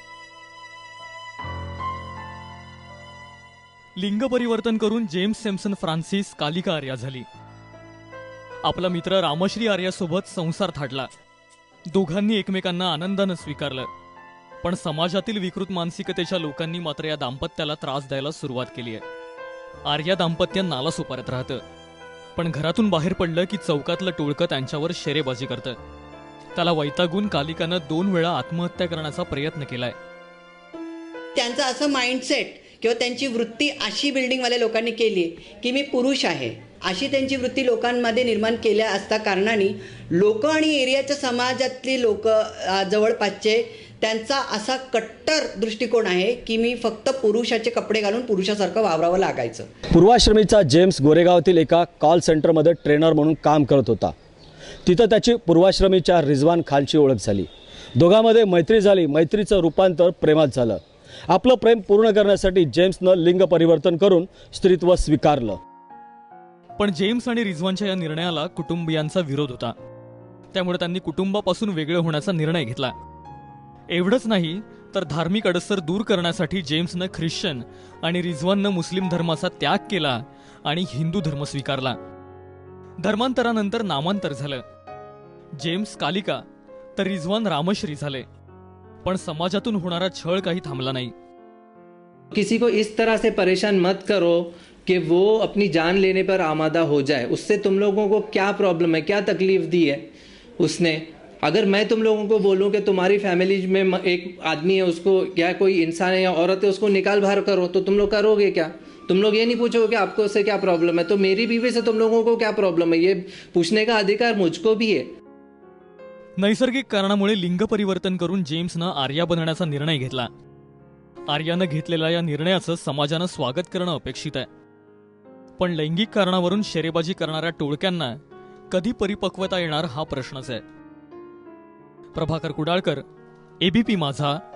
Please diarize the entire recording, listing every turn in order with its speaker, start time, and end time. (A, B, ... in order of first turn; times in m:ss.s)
0:04.0-0:07.2 A
0:08.6-0:11.1 A
0:11.9-0:13.9 A
0:14.6-0:19.0 A
0:19.9-0:21.6 A
0:22.4-0:25.8 A
0:26.6-0:29.9 A
0:31.4-0:49.7 B
0:49.9-0:54.1 C
0:54.8-1:05.6 C
1:06.8-1:09.7 A
1:10.5-1:12.9 A
1:13.9-1:22.0 A
1:23.0-1:24.6 A
1:25.6-1:26.4 A
1:27.0-1:28.2 A
1:29.0-1:31.1 A
1:32.3-1:40.1 D
1:40.6-1:55.1 D
1:56.4-2:00.3 A
2:01.3-2:04.5 A
2:05.6-2:08.1 A
2:08.7-2:10.6 A
2:12.2-2:13.0 A
2:13.6-2:14.4 A